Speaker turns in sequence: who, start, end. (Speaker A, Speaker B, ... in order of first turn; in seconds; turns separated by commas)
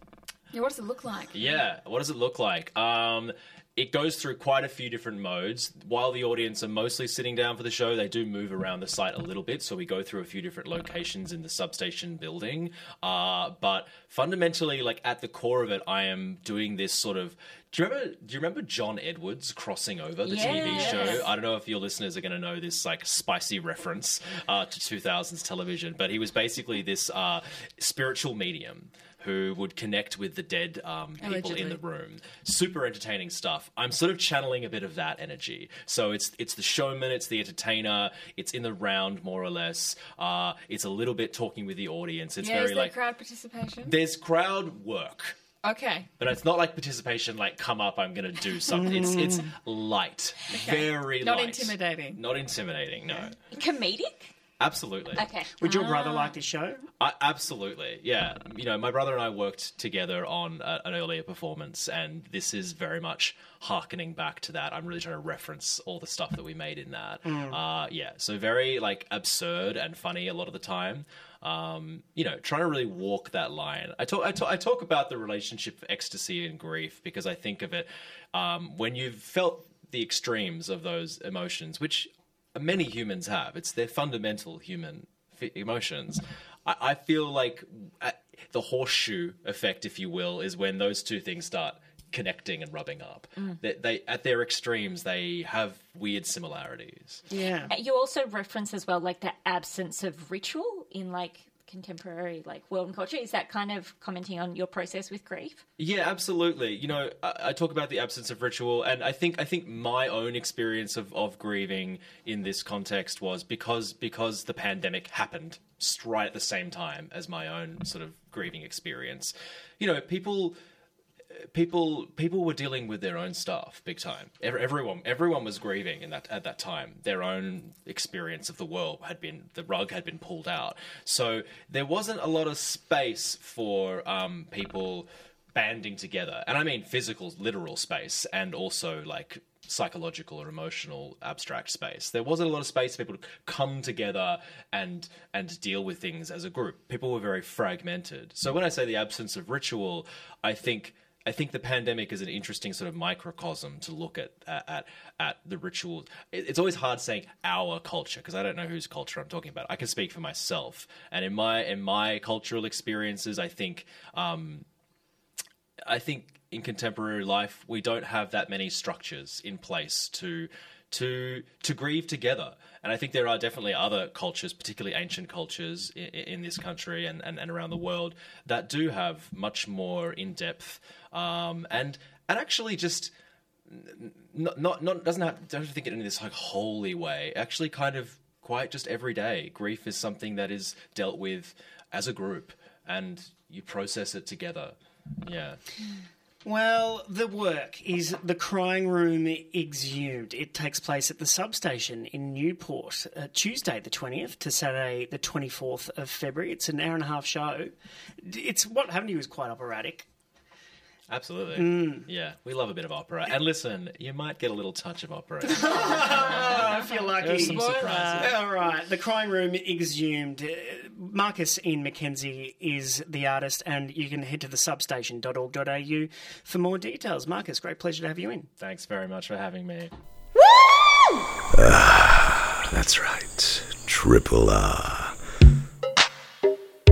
Speaker A: 0.5-1.5, Speaker B: 1.3-43.0, Speaker C: 20.3-21.3, Speaker A: 31.2-31.8, Speaker A: 42.4-44.0, Speaker B: 43.8-45.4, Speaker A: 45.6-46.1, Speaker B: 46.2-53.4, Speaker D: 48.7-49.5, Speaker A: 50.5-52.2, Speaker C: 53.5-54.3, Speaker B: 54.6-55.3, Speaker C: 55.2-55.5, Speaker D: 55.5-56.8, Speaker A: 55.6-56.2, Speaker B: 57.0-97.3, Speaker D: 67.2-67.6, Speaker D: 97.3-97.7, Speaker C: 97.7-105.6, Speaker B: 105.8-120.6, Speaker B: 121.5-164.7, Speaker B: 165.9-183.1, Speaker B: 183.7-195.6, Speaker D: 196.4-210.1, Speaker B: 211.1-218.4, Speaker D: 211.6-212.1, Speaker D: 215.5-228.5, Speaker B: 228.6-229.9, Speaker E: 231.5-235.2